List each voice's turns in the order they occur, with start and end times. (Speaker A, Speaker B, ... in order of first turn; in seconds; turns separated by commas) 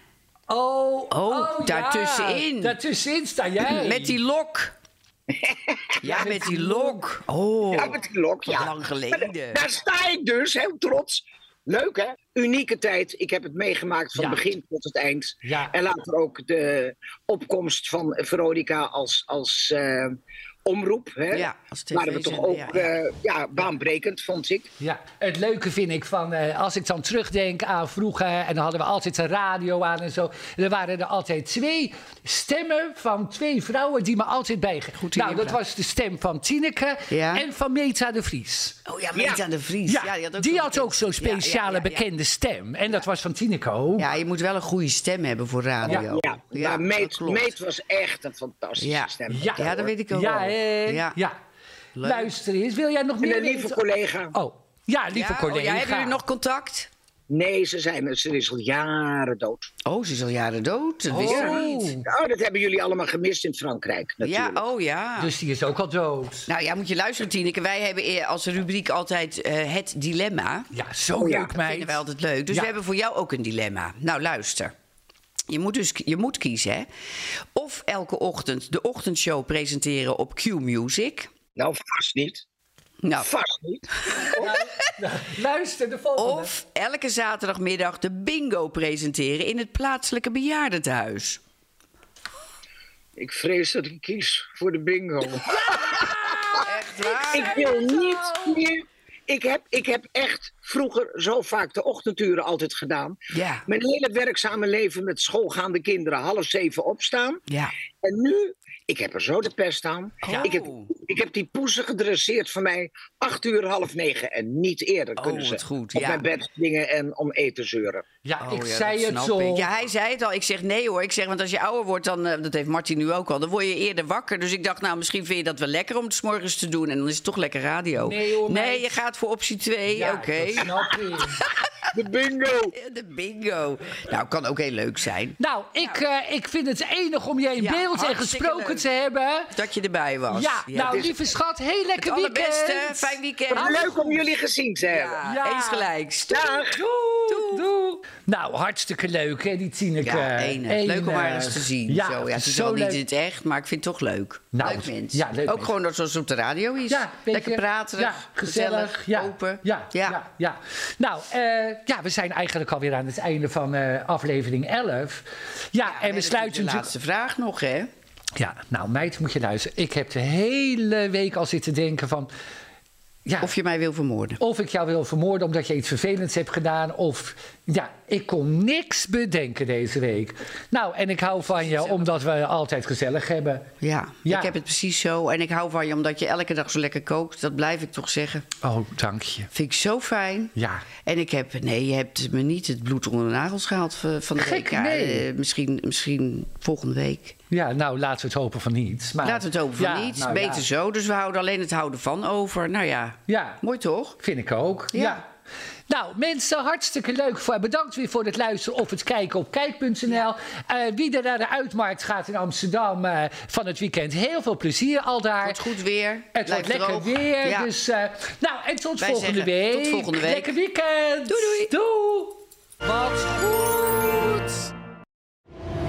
Speaker A: 0.5-4.2, Speaker B: 1.1-2.8, Speaker B: 3.6-4.8, Speaker C: 5.3-6.3, Speaker B: 6.0-9.6, Speaker A: 6.0-7.0, Speaker C: 7.7-24.7, Speaker A: 14.1-14.5, Speaker A: 15.4-15.7, Speaker B: 21.3-22.9, Speaker A: 24.8-38.8, Speaker B: 35.0-35.6, Speaker B: 37.1-37.5, Speaker B: 38.9-42.1, Speaker C: 39.1-39.4, Speaker A: 39.9-44.1, Speaker B: 44.0-47.5, Speaker C: 45.9-49.9, Speaker B: 48.8-51.2, Speaker A: 49.3-51.4, Speaker B: 51.9-52.3, Speaker A: 52.0-53.8, Speaker C: 53.2-54.3, Speaker A: 54.3-56.2, Speaker B: 55.1-56.9, Speaker C: 57.3-59.7, Speaker B: 59.8-61.6, Speaker A: 61.1-62.0, Speaker C: 61.2-64.7, Speaker B: 64.2-65.3, Speaker A: 65.2-66.5, Speaker B: 66.5-70.7, Speaker A: 70.7-72.7, Speaker C: 71.2-71.5, Speaker B: 71.5-74.7, Speaker B: 75.5-81.3, Speaker C: 81.5-82.4, Speaker B: 83.0-83.3, Speaker C: 83.2-84.5, Speaker A: 84.2-86.5, Speaker B: 86.2-91.4, Speaker C: 93.2-96.6, Speaker A: 95.5-98.6, Speaker B: 96.6-97.8, Speaker C: 97.3-107.4, Speaker B: 103.3-103.6, Speaker B: 107.5-107.7, Speaker C: 108.0-118.0, Speaker B: 110.2-110.9, Speaker A: 110.3-110.5, Speaker B: 115.2-116.2, Speaker A: 118.2-119.7, Speaker B: 118.4-130.7, Speaker A: 127.9-128.9, Speaker A: 129.9-131.4, Speaker B: 131.2-131.6, Speaker C: 131.9-132.7, Speaker B: 132.7-136.0, Speaker A: 135.4-139.5, Speaker B: 137.6-138.8, Speaker B: 139.5-141.1, Speaker A: 140.3-144.2, Speaker C: 140.9-141.1, Speaker B: 142.0-143.9, Speaker C: 143.5-145.2, Speaker B: 144.9-146.6, Speaker A: 145.2-145.9, Speaker C: 146.3-146.9, Speaker A: 146.8-153.0, Speaker B: 147.3-147.7, Speaker B: 150.0-160.2, Speaker A: 154.5-155.7, Speaker A: 156.9-166.9, Speaker B: 165.8-167.9, Speaker A: 168.3-172.3, Speaker A: 173.2-173.5, Speaker B: 173.4-174.4, Speaker A: 174.4-183.7, Speaker B: 181.5-182.1, Speaker B: 183.8-188.5, Speaker A: 184.2-184.5, Speaker A: 188.6-189.5, Speaker B: 189.5-197.3, Speaker A: 190.6-190.9, Speaker A: 194.3-195.2, Speaker A: 197.5-200.7, Speaker B: 199.2-204.2, Speaker A: 203.3-203.6, Speaker A: 204.2-205.3, Speaker B: 204.9-205.2, Speaker A: 205.9-215.6, Speaker B: 215.4-217.7, Speaker A: 216.3-224.7, Speaker B: 219.0-220.5, Speaker B: 221.3-221.7